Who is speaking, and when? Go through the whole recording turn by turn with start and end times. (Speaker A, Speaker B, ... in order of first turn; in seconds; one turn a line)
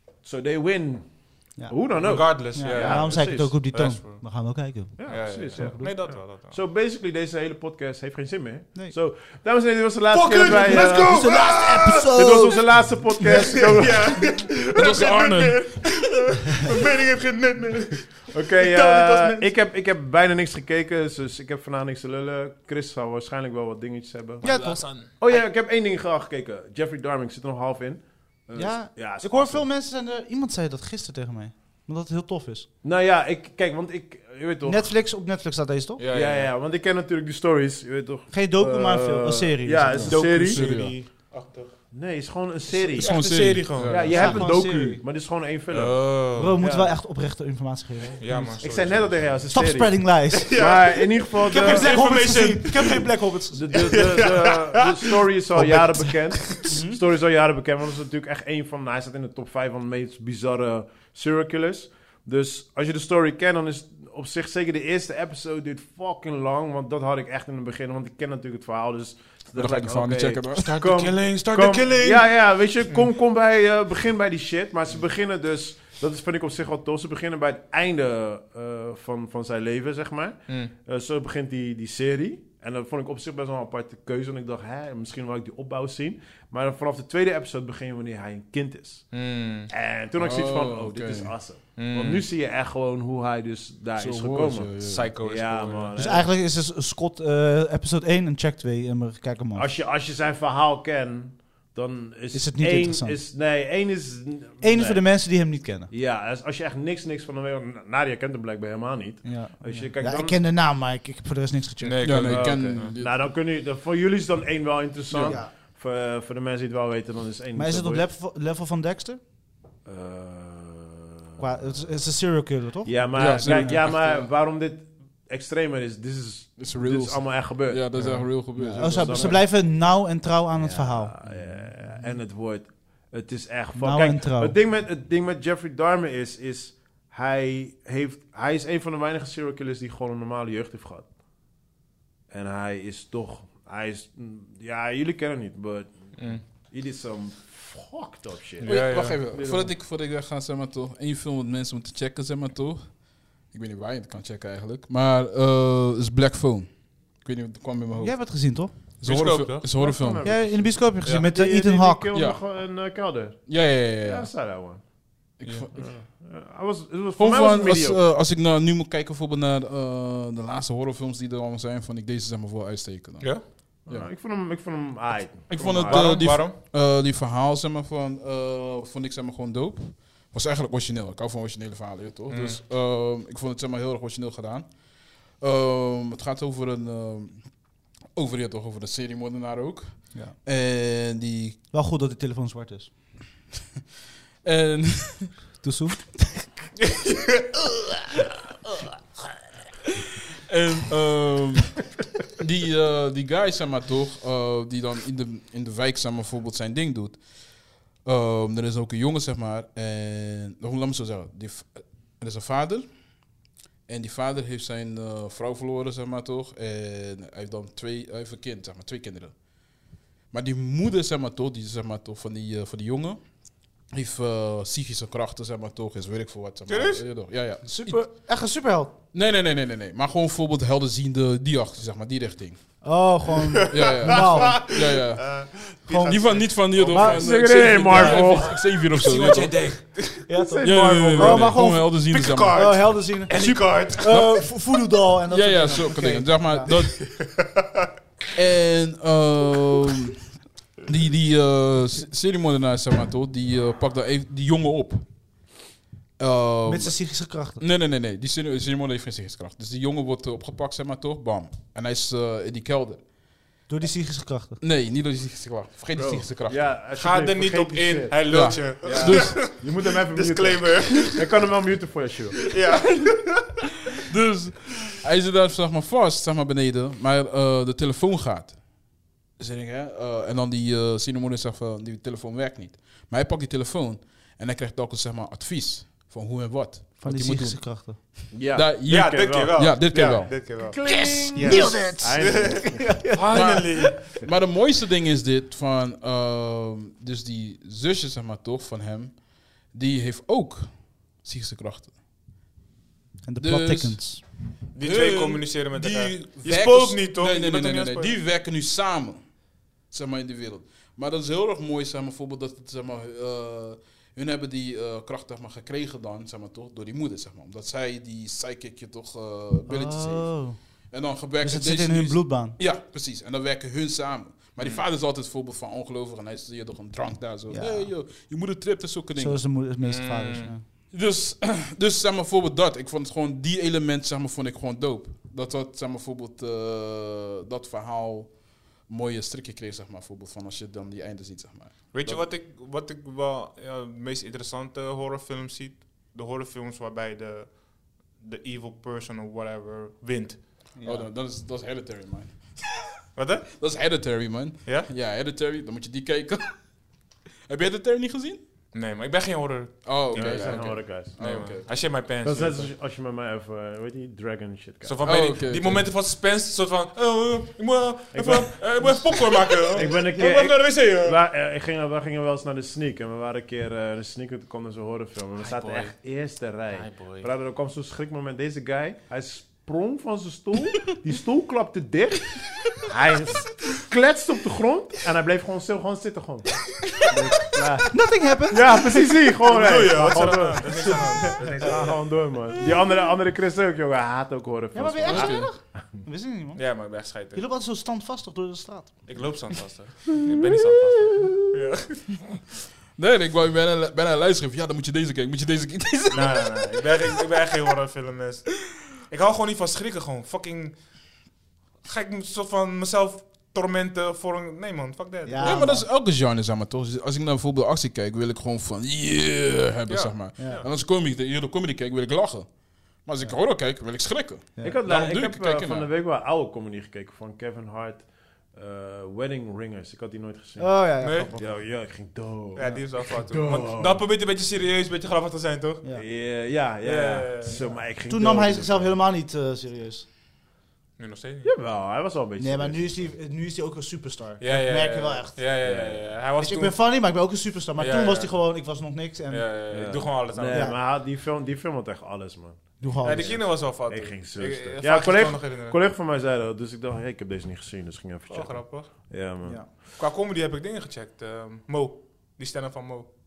Speaker A: 0.2-3.5
Speaker B: 1.6-5.9
Speaker C: 2.0-4.3
Speaker A: 5.0-11.2
Speaker C: 5.1-6.6
Speaker C: 10.1-12.2
Speaker B: 10.5-14.1
Speaker A: 12.1-14.3
Speaker C: 13.3-19.5
Speaker D: 14.8-15.9
Speaker A: 18.3-29.7
Speaker C: 24.4-25.5
Speaker B: 24.4-24.9
Speaker B: 28.6-32.7
Speaker A: 32.8-35.0
Speaker B: 34.7-36.0
Speaker C: 36.0-36.5
Speaker A: 36.1-40.6
Speaker B: 38.3-40.2
Speaker D: 40.0-41.0
Speaker C: 40.1-41.8
Speaker A: 41.9-47.0
Speaker C: 43.0-44.3
Speaker D: 43.0-44.5
Speaker B: 44.1-45.0
Speaker C: 45.7-46.5
Speaker B: 46.4-48.6
Speaker C: 48.2-49.3
Speaker A: 48.6-51.9
Speaker B: 49.5-54.0
Speaker C: 50.3-53.1
Speaker A: 53.5-96.3
Speaker C: 53.7-54.9
Speaker B: 55.6-57.0
Speaker D: 69.5-70.8
Speaker C: 70.5-73.0
Speaker C: 89.1-89.7
Speaker D: 90.2-91.4
Speaker C: 91.8-92.2
Speaker D: 94.0-95.1
Speaker C: 94.8-96.0
Speaker B: 96.0-99.7
Speaker A: 99.5-110.4
Speaker B: 102.3-103.2
Speaker B: 104.6-105.9
Speaker B: 109.2-112.4
Speaker C: 111.8-112.9
Speaker D: 112.0-113.2
Speaker A: 112.2-118.1
Speaker D: 115.1-115.4
Speaker B: 115.3-115.5
Speaker B: 117.5-119.2
Speaker A: 119.8-121.7
Speaker B: 121.4-123.8
Speaker A: 122.8-129.7
Speaker D: 123.2-124.3
Speaker D: 126.6-129.4
Speaker B: 128.8-131.2
Speaker A: 130.6-141.1
Speaker D: 131.3-131.6
Speaker B: 133.8-134.6
Speaker A: 142.3-149.8
Speaker C: 146.2-146.4
Speaker C: 148.6-149.2
Speaker D: 148.6-160.4
Speaker B: 158.0-159.0
Speaker C: 159.0-159.9
Speaker A: 159.7-168.0
Speaker B: 160.2-162.1
Speaker C: 161.0-161.3
Speaker D: 162.1-162.4
Speaker D: 163.5-164.3
Speaker D: 165.4-166.0
Speaker C: 165.4-165.8
Speaker D: 167.2-174.1
Speaker C: 173.2-173.4
Speaker A: 173.9-176.2
Speaker D: 175.5-191.6
Speaker C: 175.7-176.5
Speaker C: 182.3-182.6
Speaker B: 191.7-193.0
Speaker D: 194.4-195.6
Speaker B: 195.6-196.4
Speaker D: 200.5-213.3
Speaker D: 213.9-228.1
Speaker C: 226.7-227.0
Speaker B: 227.7-229.0
Speaker D: 229.1-232.8
Speaker B: 232.8-234.6
Speaker D: 233.7-239.7
Speaker C: 233.7-237.2
Speaker B: 235.9-236.2
Speaker B: 236.8-238.4
Speaker A: 237.0-238.8
Speaker C: 238.7-240.2
Speaker B: 240.3-247.0
Speaker A: 240.3-241.6
Speaker D: 240.6-242.8
Speaker C: 241.7-244.1
Speaker D: 243.3-244.7
Speaker D: 245.3-247.1
Speaker C: 246.7-247.5
Speaker D: 248.3-255.5
Speaker D: 256.2-263.1
Speaker B: 256.7-257.6
Speaker B: 263.7-264.6
Speaker D: 264.6-266.7
Speaker A: 265.9-272.5
Speaker C: 266.9-271.5
Speaker D: 268.3-269.5
Speaker C: 272.5-273.6
Speaker D: 274.1-290.7
Speaker B: 287.0-288.3
Speaker A: 288.3-289.6
Speaker C: 288.9-294.1
Speaker A: 290.6-293.2
Speaker B: 290.9-293.8
Speaker D: 293.3-301.9
Speaker B: 303.2-304.2
Speaker D: 303.4-329.4
Speaker C: 304.7-308.2
Speaker B: 319.7-322.6
Speaker C: 324.6-324.9
Speaker B: 327.5-328.0
Speaker B: 329.1-330.6
Speaker C: 329.8-330.6
Speaker D: 330.9-342.1
Speaker C: 341.9-350.8
Speaker B: 350.8-351.1
Speaker D: 350.8-352.8
Speaker C: 353.1-353.5
Speaker D: 353.5-358.4
Speaker C: 354.6-354.9
Speaker C: 358.7-362.7
Speaker D: 359.8-361.8
Speaker A: 360.1-361.1
Speaker A: 362.2-365.0
Speaker C: 364.8-371.2
Speaker D: 365.0-365.9
Speaker A: 368.1-395.9
Speaker C: 375.4-377.3
Speaker B: 387.9-389.2
Speaker C: 389.4-392.3
Speaker B: 394.7-399.6
Speaker D: 395.1-395.5
Speaker C: 396.6-397.4
Speaker C: 399.1-402.2
Speaker D: 403.0-407.2
Speaker C: 406.1-411.2
Speaker C: 411.8-415.7
Speaker B: 415.2-415.9
Speaker D: 415.4-425.9
Speaker C: 419.9-420.7
Speaker B: 420.4-420.6
Speaker B: 424.6-424.9
Speaker A: 424.6-434.1
Speaker B: 430.6-431.6
Speaker C: 431.0-431.3
Speaker C: 432.6-435.9
Speaker A: 435.9-439.0
Speaker C: 436.8-437.6
Speaker B: 438.1-440.1
Speaker C: 441.0-441.5
Speaker A: 441.4-443.1
Speaker B: 442.4-445.5
Speaker C: 444.4-447.0
Speaker A: 445.6-446.1
Speaker B: 446.4-449.5
Speaker C: 447.8-448.6
Speaker C: 449.3-450.8
Speaker A: 449.7-459.6
Speaker B: 450.5-450.8
Speaker B: 452.8-453.4
Speaker C: 453.0-455.8
Speaker C: 458.3-459.1
Speaker C: 459.9-463.1